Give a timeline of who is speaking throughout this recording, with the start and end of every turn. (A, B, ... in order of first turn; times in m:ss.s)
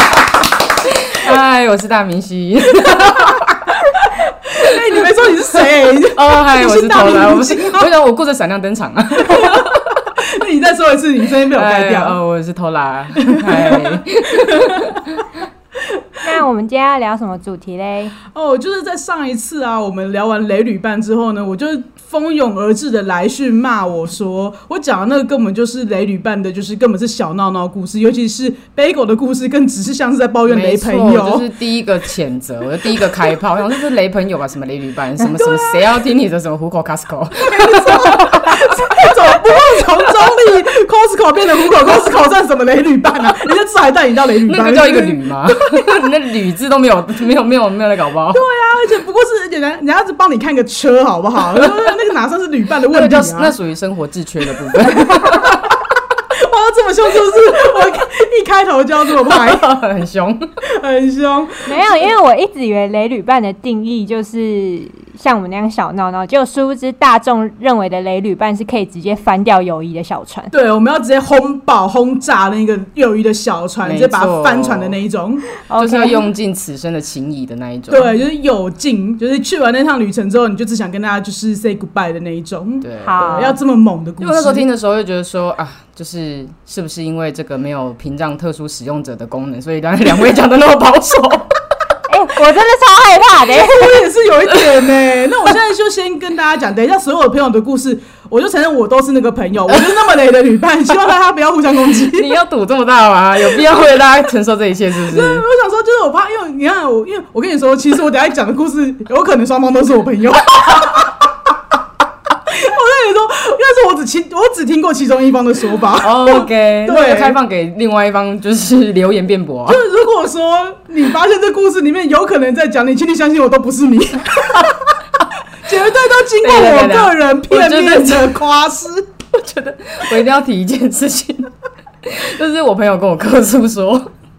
0:00.8-0:03.7 A
0:02.8-0:03.4 B
0:04.0-0:07.9 B
0:04.6-0:10.0 A
0:09.2-0:12.2 B
0:11.5-0:15.2 A
0:13.2-0:15.1 B
0:15.9-0:16.2 B
0:16.2-0:18.2 C
0:18.3-0:31.5 B
0:30.5-0:40.1 A
0:35.4-0:35.8 B
0:37.4-0:45.2 B
0:44.5-0:48.4 A
0:48.3-0:53.5 B
0:52.9-0:55.8 A
0:54.7-0:55.6 B
0:56.4-0:59.8 B
0:59.2-1:00.5 A
1:00.6-1:02.0 B
1:01.6-1:10.5 C
1:10.5-1:15.4 B
1:13.8-1:15.0 A
1:15.7-1:16.2 C
1:15.8-1:18.2 A
1:17.9-1:24.7 B
1:22.8-1:23.6 A
1:23.0-1:23.5 C
1:24.2-1:31.5 A
1:32.1-1:34.0 C
1:33.5-1:42.3 B
1:34.5-1:34.9 A
1:39.7-1:40.1 A
1:42.1-1:45.5 A
1:45.1-1:51.2 B
1:50.7-1:51.1 A
1:52.5-1:57.4 B
1:56.0-1:59.8 A
1:59.7-2:04.9 B
2:05.6-2:09.1 B
2:06.4-2:08.4 A
2:09.3-2:11.5 A
2:12.0-2:14.1 A